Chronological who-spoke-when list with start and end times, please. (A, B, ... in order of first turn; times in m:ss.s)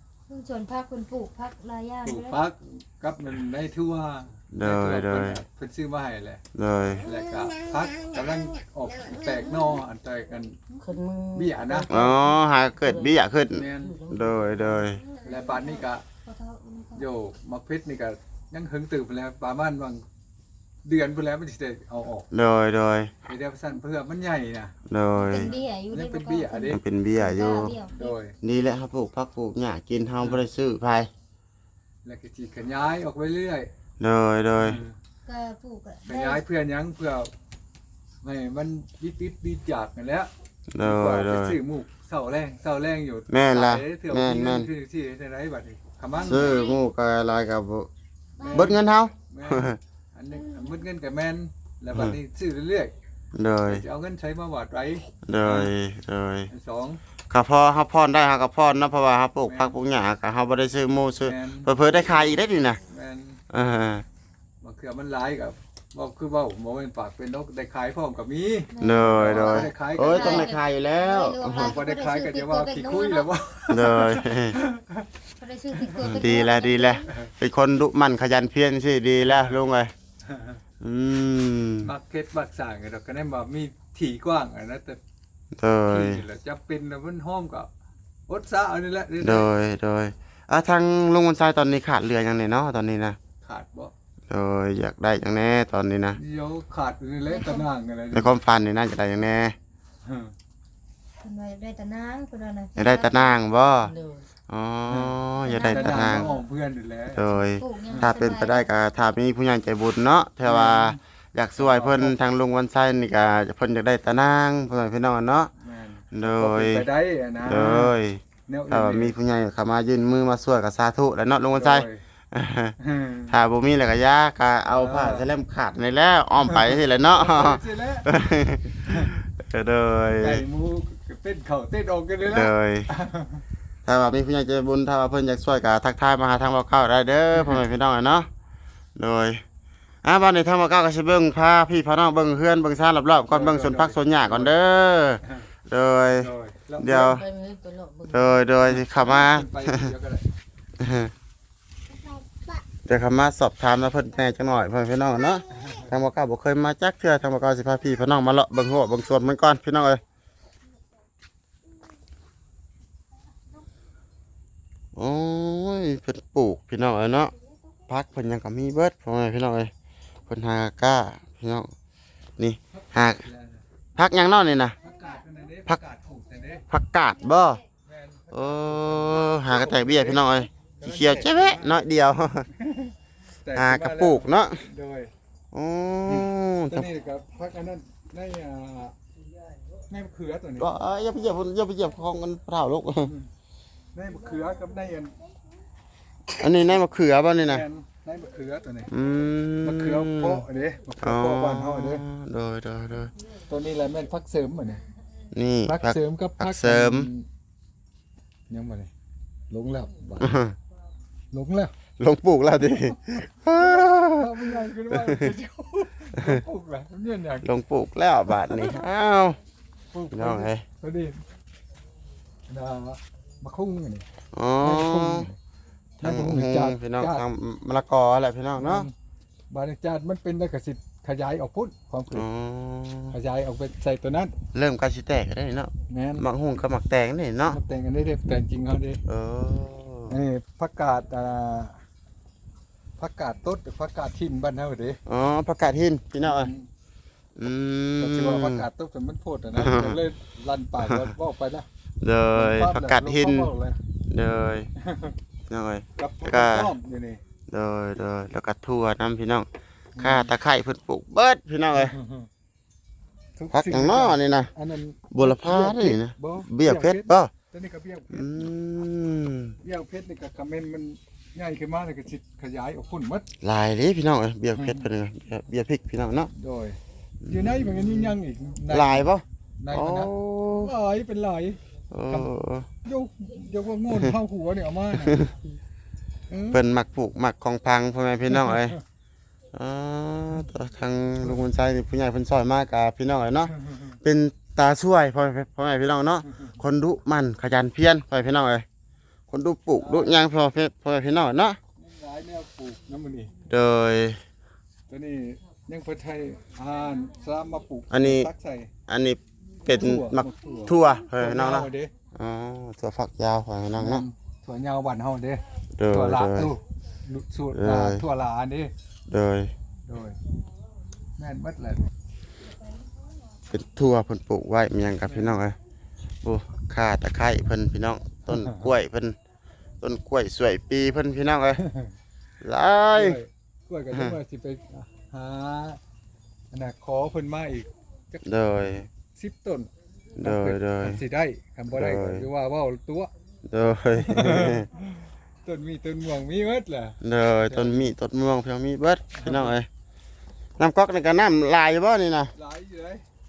0:00.3-0:02.4 A
0:02.0-0:06.4 B
0:04.5-0:05.4 C
0:06.5-0:07.0 C
0:07.0-0:10.8 B
0:10.8-0:12.3 D
0:11.3-0:12.1 B
0:11.9-0:15.0 C
0:12.8-0:14.8 D
0:13.5-0:13.9 B
0:15.0-0:17.1 A
0:15.2-0:16.0 B
0:17.0-0:20.0 B
0:20.8-0:22.3 B
0:22.3-0:23.1 C
0:23.2-0:26.8 B
0:24.9-0:25.5 C
0:25.2-0:28.2 A
0:26.7-0:27.8 C
0:27.9-0:28.4 B
0:28.4-0:31.1 C
0:32.0-0:33.7 B
0:34.0-0:34.8 C
0:34.6-0:35.0 B
0:35.2-0:36.4 A
0:36.1-0:37.3 B
0:38.2-0:46.6 B
0:40.7-0:41.6 C
0:43.3-0:44.7 C
0:46.1-0:46.8 A
0:46.2-0:47.9 C
0:48.4-0:52.9 B
0:48.4-0:48.7 A
0:48.5-0:49.8 C
0:53.3-0:53.8 C
0:53.6-0:55.7 B
0:55.2-0:56.5 C
0:56.5-0:57.0 B
0:57.3-1:02.8 C
0:59.4-0:59.7 B
1:01.2-1:01.7 B
1:02.8-1:03.4 B
1:03.5-1:04.0 C
1:04.6-1:10.5 B
1:08.7-1:13.3 A
1:08.8-1:11.8 C
1:11.4-1:15.1 B
1:13.7-1:14.6 C
1:15.4-1:17.1 A
1:15.8-1:16.4 B
1:16.0-1:19.9 C
1:19.2-1:19.6 B
1:20.2-1:20.6 B
1:20.8-1:21.9 C
1:21.8-1:25.0 B
1:25.6-1:26.2 C
1:25.9-1:27.7 B
1:28.3-1:29.5 B
1:29.2-1:33.2 C
1:33.4-1:33.9 B
1:34.3-1:36.2 C
1:36.2-1:38.3 B
1:37.3-1:37.7 A
1:38.1-1:39.6 C
1:40.0-1:40.3 B
1:41.2-1:43.4 A
1:42.8-1:43.9 C
1:43.8-1:44.3 D
1:44.5-1:46.3 C
1:44.8-1:47.2 B
1:45.4-1:46.4 A
1:47.1-1:55.5 C
1:47.6-1:48.7 A
1:47.9-1:48.1 B
1:50.4-1:51.0 B
1:51.6-1:52.2 B
1:55.6-1:57.9 B
1:56.1-1:56.8 C
1:57.4-2:02.8 C
1:58.5-1:59.1 B
2:01.5-2:02.0 B
2:02.8-2:03.3 B
2:03.3-2:10.4 C
2:04.7-2:05.3 B
2:06.4-2:08.1 B
2:08.8-2:09.2 B
2:10.2-2:13.4 B
2:12.2-2:12.9 C
2:13.8-2:18.3 C
2:19.0-2:19.4 C
2:20.0-2:27.2 C
2:23.3-2:24.6 B
2:25.2-2:25.5 B
2:26.1-2:27.1 B
2:26.8-2:28.5 D
2:28.1-2:29.9 C
2:28.6-2:30.3 B
2:30.8-2:31.1 C
2:32.8-2:40.0 C
2:35.5-2:35.9 B
2:44.9-2:47.3 C
2:47.9-2:49.7 C
2:50.3-2:51.7 C
2:52.4-2:53.2 C
2:52.7-2:53.6 B
2:54.0-2:54.8 C
2:54.8-2:56.6 B
2:56.7-2:57.6 C
2:57.8-3:01.8 B
2:58.3-3:02.5 C
3:02.5-3:05.1 B
3:03.5-3:04.6 C
3:05.5-3:06.9 C
3:06.1-3:08.9 B
3:09.9-3:10.7 B
3:10.6-3:13.1 C
3:13.0-3:13.3 B
3:13.9-3:15.1 B
3:16.3-3:16.7 B
3:16.4-3:17.6 C
3:17.4-3:18.9 B
3:18.9-3:20.4 C
3:19.6-3:22.0 B
3:21.0-3:23.1 C
3:23.5-3:24.8 B
3:25.3-3:27.1 C
3:25.6-3:27.3 B
3:28.5-3:28.9 B
3:29.5-3:30.4 B
3:30.2-3:30.6 C
3:31.3-3:31.7 B
3:32.0-3:35.3 C
3:33.5-3:37.5 B
3:37.4-3:39.4 C
3:38.4-3:38.8 B
3:39.9-3:41.2 B
3:40.1-3:40.6 C
3:42.5-3:44.0 B
3:44.3-3:45.3 C
3:44.6-3:45.4 B
3:46.0-3:47.2 B
3:46.0-3:48.9 C
3:48.6-3:48.9 B
3:49.5-3:52.2 B
3:52.1-3:53.1 C
3:53.1-3:54.4 B
3:54.5-3:57.6 C
3:55.9-3:56.2 B
3:57.5-3:59.0 B
3:59.1-4:00.2 C
4:00.1-4:01.8 B
4:03.0-4:05.0 B
4:05.1-4:06.5 C
4:06.2-4:06.7 B
4:07.4-4:08.6 C
4:08.0-4:11.7 B
4:09.5-4:10.0 C
4:10.8-4:11.1 C
4:12.0-4:13.5 C
4:12.3-4:13.8 B
4:14.1-4:14.7 C
4:14.8-4:15.2 B
4:15.5-4:16.7 C
4:16.0-4:17.2 B
4:17.5-4:19.5 C
4:20.0-4:20.3 B
4:20.0-4:21.9 C
4:21.7-4:22.3 B
4:23.4-4:28.5 B
4:23.5-4:24.5 C
4:25.1-4:27.3 C
4:28.1-4:29.6 C
4:29.6-4:33.3 B
4:33.4-4:36.3 C
4:34.5-4:34.9 B
4:36.3-4:41.6 B
4:37.2-4:40.7 C
4:41.9-4:42.7 C
4:42.8-4:45.2 B
4:44.9-4:45.4 C
4:46.3-4:46.6 B
4:46.5-4:48.8 C
4:48.3-4:48.7 B
4:49.5-4:58.6 C
4:53.6-4:53.9 B
4:59.3-5:01.6 C
4:59.8-5:00.2 B
5:01.8-5:03.3 B
5:03.5-5:04.2 C
5:04.9-5:08.7 B
5:07.9-5:08.3 C
5:08.9-5:14.0 C
5:09.6-5:11.9 B
5:13.8-5:18.7 B
5:15.8-5:16.5 C
5:17.5-5:18.0 C
5:19.1-5:19.5 C
5:19.9-5:20.2 B
5:21.2-5:21.8 B
5:23.5-5:25.6 C
5:25.0-5:25.4 B
5:26.2-5:29.2 C
5:28.3-5:28.7 B
5:29.8-5:31.6 C
5:31.6-5:31.9 B
5:32.4-5:33.2 C
5:32.9-5:35.8 B
5:33.9-5:34.2 C
5:36.5-5:38.2 B
5:38.2-5:38.8 C
5:38.9-5:43.1 B
5:40.2-5:41.0 C
5:41.7-5:42.2 C
5:43.5-5:44.7 C
5:43.9-5:47.9 B
5:47.0-5:49.7 C
5:49.1-5:49.6 B
5:50.6-5:52.3 C
5:52.3-5:53.0 B